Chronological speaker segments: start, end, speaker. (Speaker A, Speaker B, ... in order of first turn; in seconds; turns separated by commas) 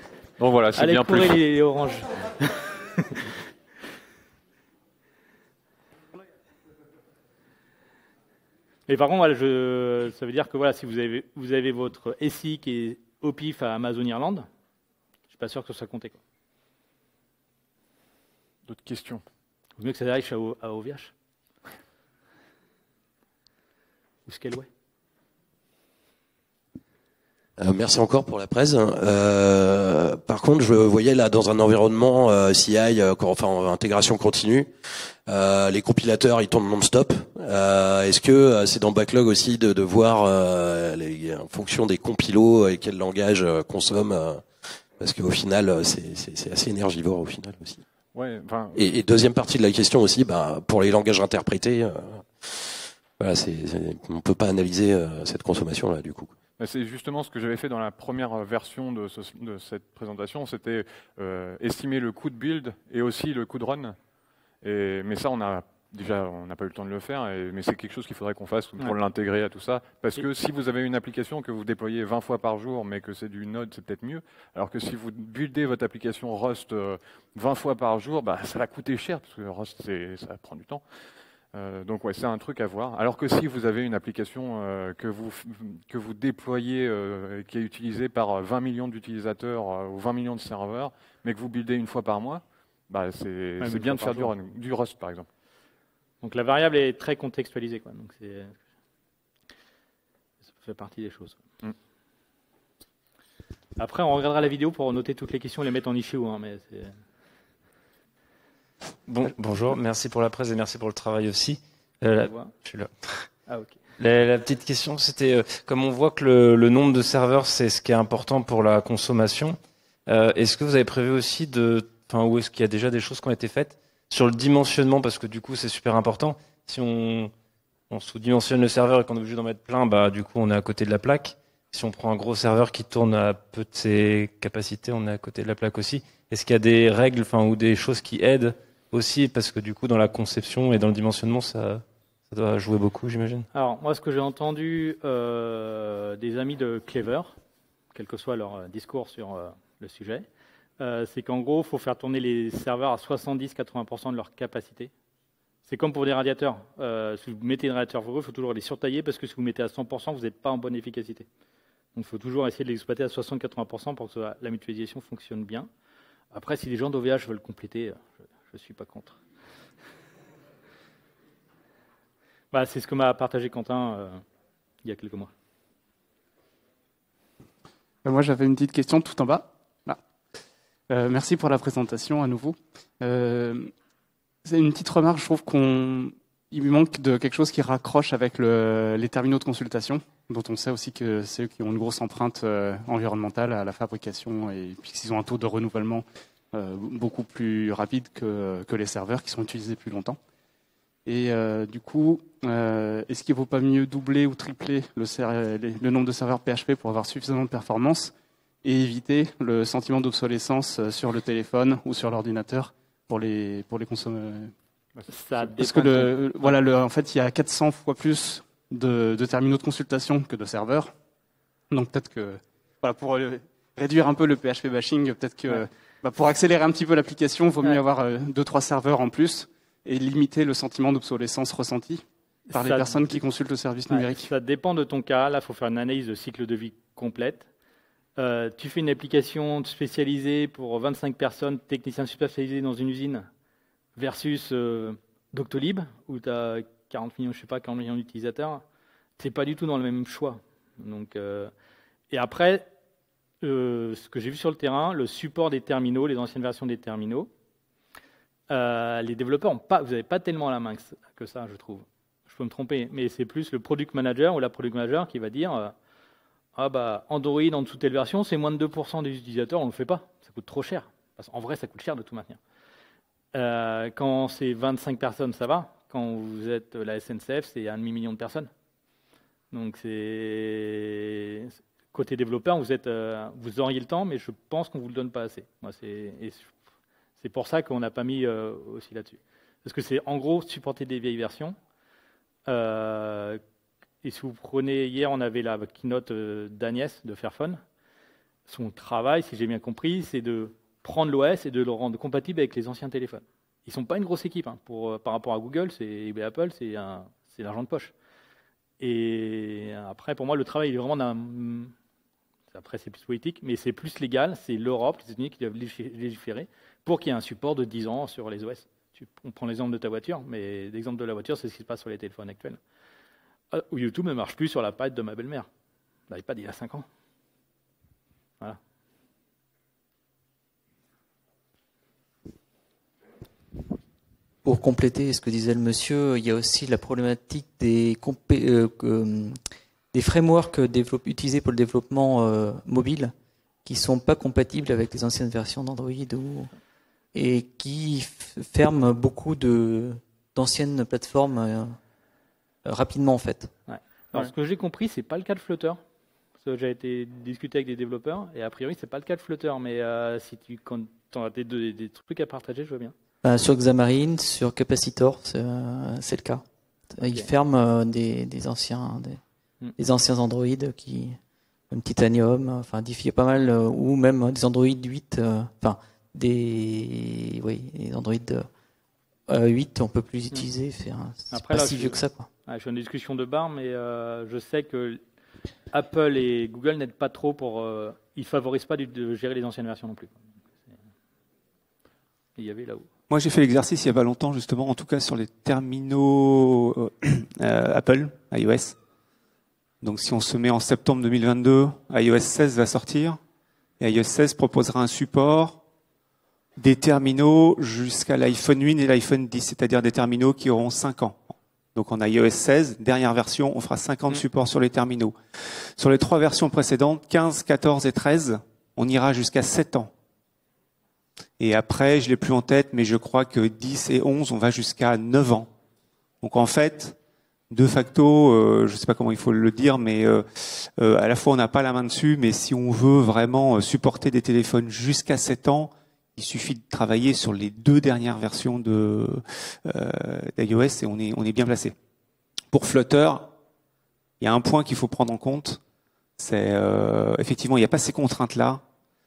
Speaker A: 0.4-1.4, Speaker B: 0.7-3.3, Speaker B: 8.9-14.5, Speaker B: 15.3-16.2, Speaker A: 18.6-19.2, Speaker B: 19.8-21.1, Speaker B: 24.2-24.7, Speaker C: 27.6-47.8, Speaker A: 48.1-48.9, Speaker C: 48.7-56.3, Speaker A: 56.6-64.0, Speaker A: 64.6-80.8, Speaker A: 81.5-95.3, Speaker B: 93.6-94.3, Speaker B: 96.2-98.6, Speaker B: 100.5-101.4, Speaker B: 103.8-106.9, Speaker D: 109.1-113.2, Speaker B: 112.2-112.5, Speaker B: 113.5-113.8, Speaker D: 114.0-127.3, Speaker D: 127.9-143.5, Speaker B: 143.5-147.4, Speaker B: 147.9-150.3, Speaker B: 150.8-154.9, Speaker B: 155.7-161.3, Speaker B: 161.9-165.7, Speaker B: 166.3-169.2, Speaker B: 172.5-174.2, Speaker B: 174.8-175.3, Speaker E: 178.0-180.0, Speaker E: 180.9-183.7, Speaker E: 184.4-200.2, Speaker E: 201.0-214.5, Speaker B: 215.1-216.6, Speaker E: 215.6-220.9, Speaker E: 221.7-234.3, Speaker B: 232.5-233.2, Speaker B: 233.9-237.5, Speaker B: 238.2-243.3, Speaker B: 243.9-248.6, Speaker B: 249.2-251.5, Speaker B: 252.1-252.7, Speaker B: 253.4-257.3, Speaker B: 258.5-265.7, Speaker B: 266.6-272.4, Speaker B: 273.3-278.5, Speaker B: 279.5-286.5, Speaker B: 287.2-291.6, Speaker B: 292.4-293.4, Speaker B: 294.0-297.6, Speaker B: 298.5-307.9, Speaker B: 308.8-311.7, Speaker B: 312.5-322.6, Speaker B: 323.5-325.5, Speaker B: 326.1-326.9, Speaker F: 334.4-339.4, Speaker F: 339.9-343.1, Speaker F: 343.6-346.5, Speaker F: 347.1-351.8, Speaker F: 352.6-353.5, Speaker B: 353.7-355.8, Speaker B: 356.4-362.9, Speaker F: 363.2-366.4, Speaker F: 366.9-369.2, Speaker B: 367.0-367.3, Speaker F: 369.8-371.2, Speaker F: 371.7-378.5, Speaker F: 379.3-382.3, Speaker B: 381.3-385.0, Speaker B: 385.7-390.7, Speaker B: 392.4-392.9, Speaker G: 393.1-398.8, Speaker G: 399.8-403.2, Speaker G: 403.8-405.6, Speaker G: 406.6-419.9, Speaker G: 421.4-425.5, Speaker G: 426.2-427.0, Speaker G: 427.5-441.7, Speaker G: 442.5-443.3, Speaker G: 444.2-445.6, Speaker G: 446.2-448.6